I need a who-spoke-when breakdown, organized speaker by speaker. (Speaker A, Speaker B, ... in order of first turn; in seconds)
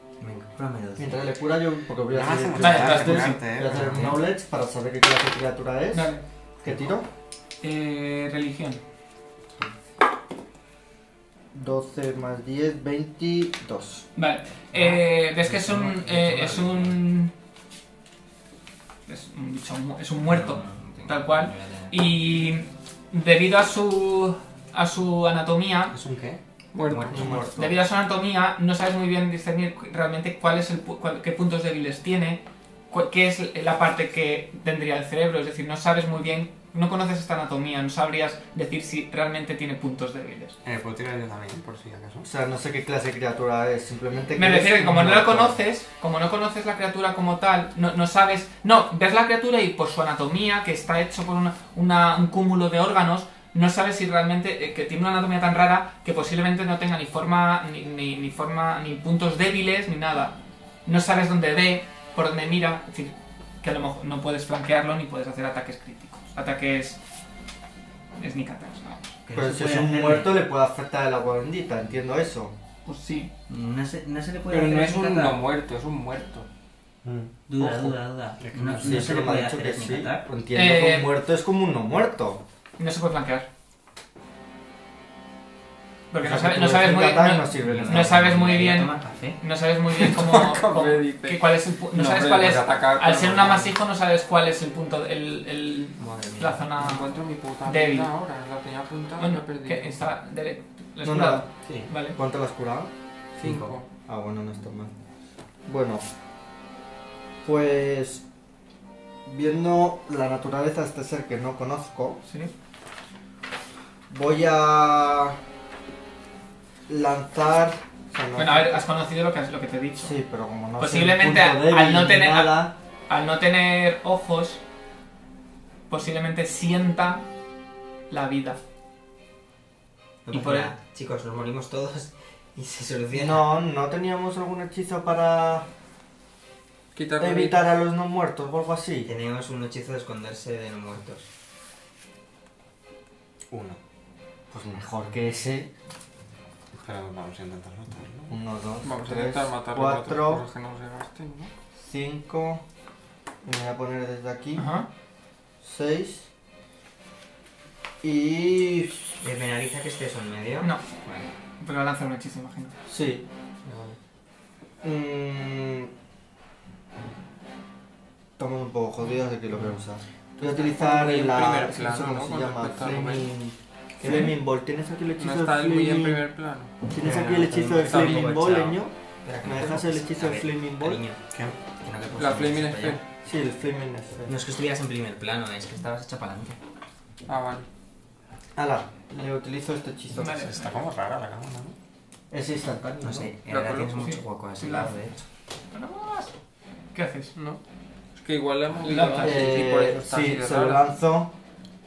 Speaker A: 0.2-1.2, 14.7-16.9, 20.3-22.0, 26.9-27.4, 69.3-70.4, 73.5-75.4, 77.5-80.2, 87.6-89.4, 96.0-96.6, 130.3-133.5, 139.1-141.3, 159.2-161.3, 177.0-181.2, 181.8-183.0, 184.3-186.6, 193.0-195.2
Speaker B: 1.0-7.1, 11.5-14.1, 27.1-27.8, 42.2-45.6, 69.3-72.5, 78.8-82.4, 86.2-88.5, 101.0-101.5, 102.1-102.9, 104.1-104.9, 105.7-106.0, 107.4-108.2, 109.3-112.2, 114.1-115.4, 116.9-118.8, 120.0-122.7, 133.1-135.7, 137.2-139.1, 144.5-145.7, 148.3-150.4, 151.8-152.6, 153.4-154.7, 155.6-156.3, 158.0-159.0, 162.9-163.2, 164.8-165.9, 168.4-176.2, 176.8-181.0, 183.2-184.4, 188.6-190.6, 192.3-193.3, 199.2-201.3
Speaker C: 2.1-4.2, 6.7-6.9, 25.9-26.4, 40.6-42.3, 77.0-77.3, 78.4-79.2, 101.7-101.9, 143.5-143.8, 146.8-148.3, 190.4-191.8
Speaker D: 2.6-3.4, 5.9-6.2, 7.6-8.8, 14.2-17.3, 19.1-25.9, 27.4-40.6, 44.4-67.0, 68.2-69.2, 72.8-73.3, 80.5-81.1, 82.8-83.5, 86.1-98.1, 99.2-102.2, 112.3-112.5, 118.4-120.2, 120.8-124.6, 125.9-127.2, 128.1-128.6, 130.3-130.7, 154.6-154.9, 161.6-162.8, 174.0-174.3, 190.1-190.8, 194.0-194.9, 195.7-196.3, 196.9-197.3, 198.8-199.4
Speaker E: 26.7-27.5, 74.5-76.5, 77.6-77.9, 90.0-93.7, 96.8-100.0, 103.4-103.9, 136.9-137.7, 148.8-151.5, 170.4-173.3, 174.1-174.3, 175.2-176.8, 177.8-178.5, 182.2-183.0, 187.3-187.7, 193.5-194.0, 197.3-197.6, 198.2-200.9